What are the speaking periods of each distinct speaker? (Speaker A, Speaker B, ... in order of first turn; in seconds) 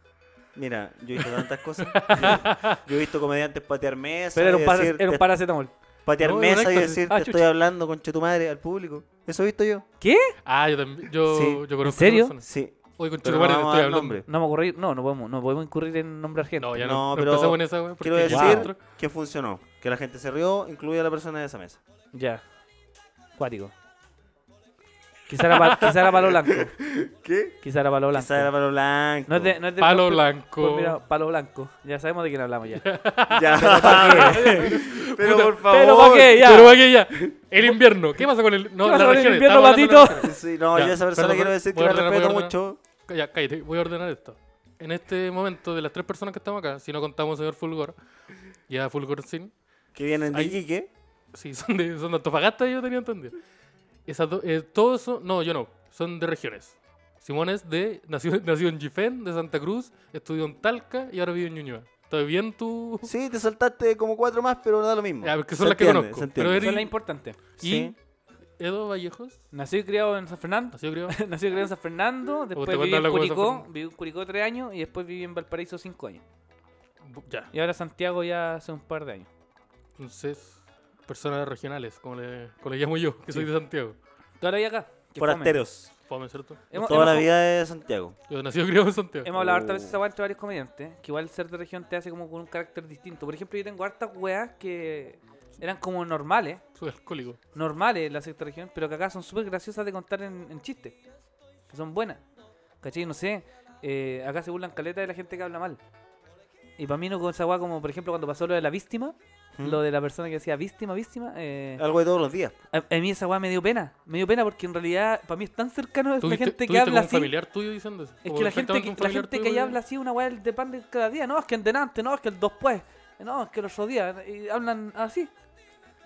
Speaker A: 0.5-5.3, 6.0-9.8, 11.3-11.6, 12.4-14.2, 16.8-21.8, 25.8-27.6, 28.1-29.6, 33.3-36.5, 40.2-42.8, 49.9-50.9, 63.0-66.7, 67.6-67.9, 85.2-85.9, 86.7-88.2, 89.3-90.0, 109.5-109.8, 111.8-112.5
Speaker B: 1.2-2.8, 6.2-7.0, 10.4-12.4, 13.0-14.2, 16.6-18.8, 29.8-31.0, 32.8-47.9, 48.7-49.5, 50.3-50.6, 51.3-53.4, 54.0-63.1, 65.2-66.9, 67.6-68.0, 68.6-69.4, 70.7-71.2, 72.5-73.7, 77.0-77.5, 80.0-84.0, 86.1-87.2, 88.3-89.3, 96.7-97.4, 116.2-119.8
Speaker C: 4.3-5.7, 7.1-7.4, 10.0-10.3, 11.8-12.3, 14.2-16.7, 18.3-18.7, 22.1-22.4, 23.4-23.7, 25.3-26.7, 27.6-28.5, 29.3-32.8, 33.5-34.8, 35.6-36.8, 38.8-40.3, 66.6-67.4, 69.5-76.2, 77.5-79.3, 84.4-85.6, 86.7-87.3, 89.2-96.6, 97.5-101.0, 101.7-102.2, 102.8-105.8, 106.8-111.8, 112.7-117.3, 118.2-125.3